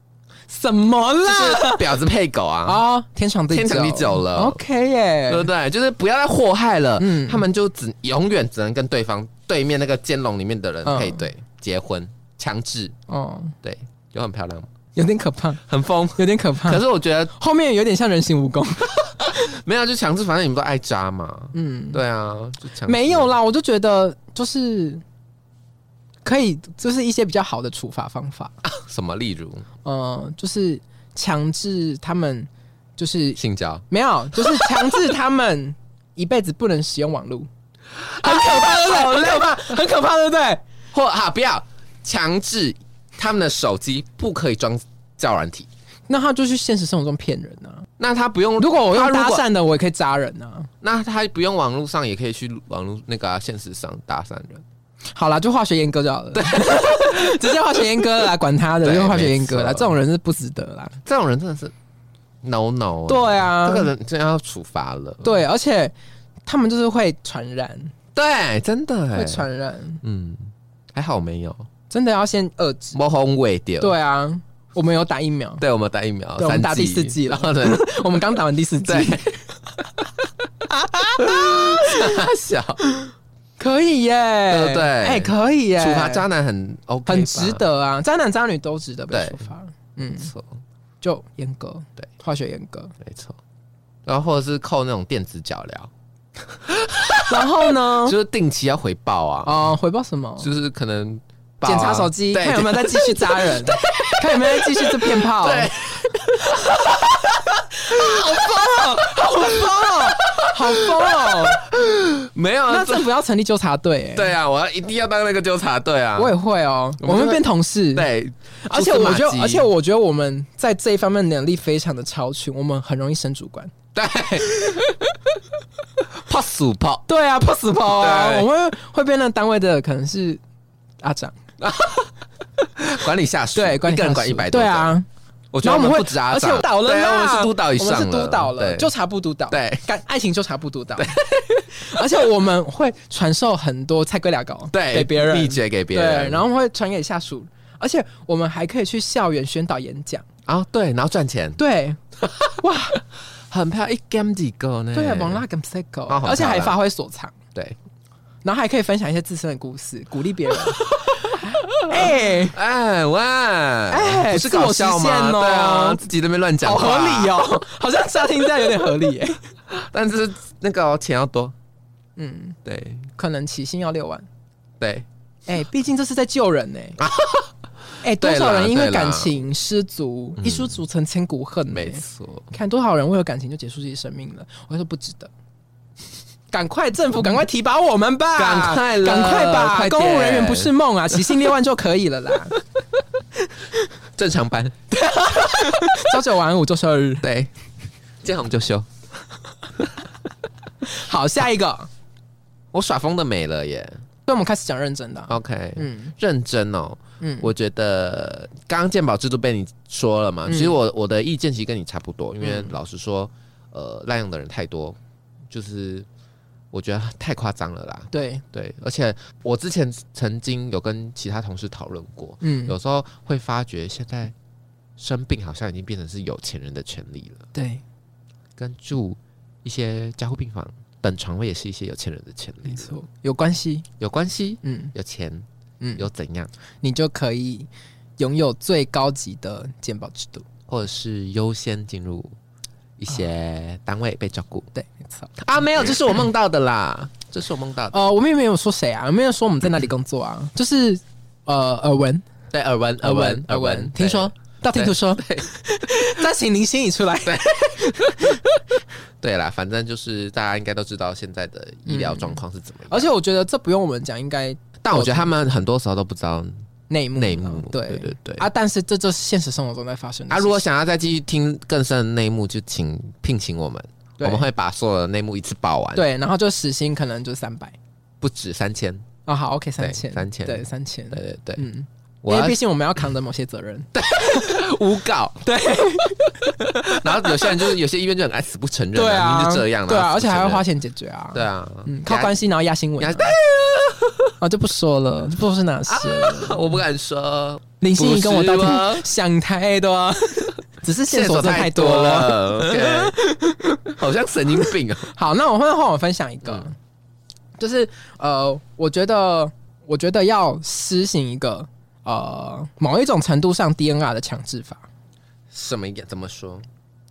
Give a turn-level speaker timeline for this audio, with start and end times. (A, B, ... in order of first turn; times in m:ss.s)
0:00.5-0:01.9 A
0:01.2-0:02.8 B
0:02.6-0:05.5 A
0:03.5-0:04.6 B
0:05.3-0:12.9 B
0:07.0-0:07.4 A
0:10.8-0:11.2 A
0:13.1-0:13.6 A
0:13.6-0:14.7 B
0:14.9-0:15.6 A
0:15.6-0:17.3 B
0:16.2-0:16.8 A
0:17.3-0:19.4 A
0:19.0-0:23.3 B
0:21.5-0:22.0 A
0:22.8-0:25.0 A
0:26.2-0:28.5 A
0:28.6-0:29.6 B
0:29.8-0:37.5 A
0:33.4-0:33.8 B
0:34.4-0:34.8 B
0:38.1-0:39.7 B
0:38.2-0:40.6 A
0:40.9-0:45.7 B
0:46.1-0:47.9 A
0:48.0-0:49.4 B
0:48.6-0:50.7 A
0:50.8-0:54.6 B
0:55.1-1:01.0 A
0:56.3-0:57.4 B
0:58.8-0:59.9 B
1:01.0-1:01.7 B
1:02.4-1:05.4 B
1:03.1-1:03.9 A
1:05.2-1:05.9 A
1:06.4-1:07.9 A
1:08.1-1:09.4 B
1:09.1-1:10.0 A
1:10.0-1:11.7 B
1:11.9-1:13.0 A
1:12.9-1:13.9 B
1:13.8-1:15.6 A
1:15.6-1:18.2 B
1:16.4-1:19.4 A
1:18.8-1:19.3 B
1:20.7-1:22.2 A
1:21.2-1:22.8 B
1:22.9-1:26.2 A
1:24.5-1:27.6 B
1:27.0-1:30.3 A
1:29.1-1:29.4 B
1:30.1-1:30.6 B
1:31.0-1:32.9 A
1:33.0-1:33.4 B
1:34.0-1:35.9 B
1:36.5-1:39.5 B
1:37.3-1:38.2 A
1:39.4-1:40.5 A
1:40.4-1:53.1 B
1:41.6-1:45.7 A
1:46.4-1:47.0 A
1:47.8-1:51.7 A
1:52.7-1:54.3 A
1:54.1-1:56.3 B
1:56.2-1:58.1 A
1:57.0-1:59.7 B
1:58.6-2:03.7 A
2:03.9-2:05.1 B
2:06.2-2:07.0 B
2:07.1-2:10.4 A
2:07.8-2:08.5 B
2:11.0-2:11.4 A
2:11.6-2:12.1 B
2:12.8-2:15.0 B
2:13.5-2:15.0 A
2:15.5-2:18.9 B
2:15.6-2:30.2 A
2:19.5-2:19.8 B
2:21.0-2:21.6 B
2:24.7-2:26.4 B
2:30.4-2:31.6 B
2:31.6-2:32.0 A
2:32.2-2:35.4 B
2:32.6-2:33.0 A
2:34.9-2:37.3 A
2:36.1-2:36.7 B
2:38.4-2:42.6 A
2:41.0-2:47.4 B
2:43.9-2:46.0 A
2:46.6-2:49.4 A
2:49.7-2:51.5 B
2:52.2-2:52.6 A
2:52.6-2:53.1 B
2:53.2-2:54.2 A
2:54.8-2:55.1 B
2:55.5-2:57.0 A
2:57.0-2:57.5 B
2:58.0-3:05.3 A
2:58.2-2:59.3 B
3:00.4-3:00.8 B
3:01.7-3:02.5 B
3:06.5-3:12.6 A
3:08.4-3:11.2 B
3:14.2-3:16.1 B
3:14.9-3:17.3 A
3:17.2-3:17.5 B
3:18.2-3:18.9 B
3:20.8-3:21.9 A
3:22.7-3:24.0 B
3:24.3-3:26.1 A
3:25.3-3:35.0 B
3:27.2-3:27.5 A
3:30.4-3:30.7 A
3:32.4-3:32.7 A
3:35.5-3:36.1 B
3:36.7-3:44.3 B
3:38.1-3:38.4 A
3:42.4-3:42.7 A
3:45.0-3:47.4 B
3:47.5-3:47.8 A
3:48.6-3:53.0 B
3:52.6-3:53.8 A
3:54.0-3:55.4 B
3:54.6-3:54.9 A
3:55.8-3:56.0 A
3:56.0-3:56.5 B
3:56.8-4:00.4 A
4:00.7-4:02.3 B
4:03.0-4:04.7 B
4:04.7-4:05.4 A
4:05.4-4:08.0 B
4:07.9-4:12.2 A
4:12.5-4:15.4 B
4:13.0-4:18.5 A
4:17.2-4:18.4 B
4:19.2-4:23.1 B
4:21.9-4:25.3 A
4:24.8-4:26.5 B
4:26.9-4:30.6 A
4:27.2-4:28.4 B
4:30.3-4:36.0 B
4:34.2-4:34.5 A
4:35.9-4:37.8 A
4:38.2-4:39.0 B
4:39.2-4:44.6 A
4:39.8-4:41.6 B
4:42.2-4:42.6 B
4:43.9-4:45.5 B
4:45.4-4:47.6 A
4:46.9-4:50.6 B
4:48.9-4:53.4 A
4:51.3-4:52.4 B
4:53.0-4:54.3 B
4:54.4-4:56.8 A
4:55.9-4:59.0 B
4:57.8-5:03.9 A
5:01.0-5:03.2 B
5:03.8-5:05.1 B
5:04.6-5:06.8 A
5:07.6-5:14.8 A
5:15.5-5:16.6 B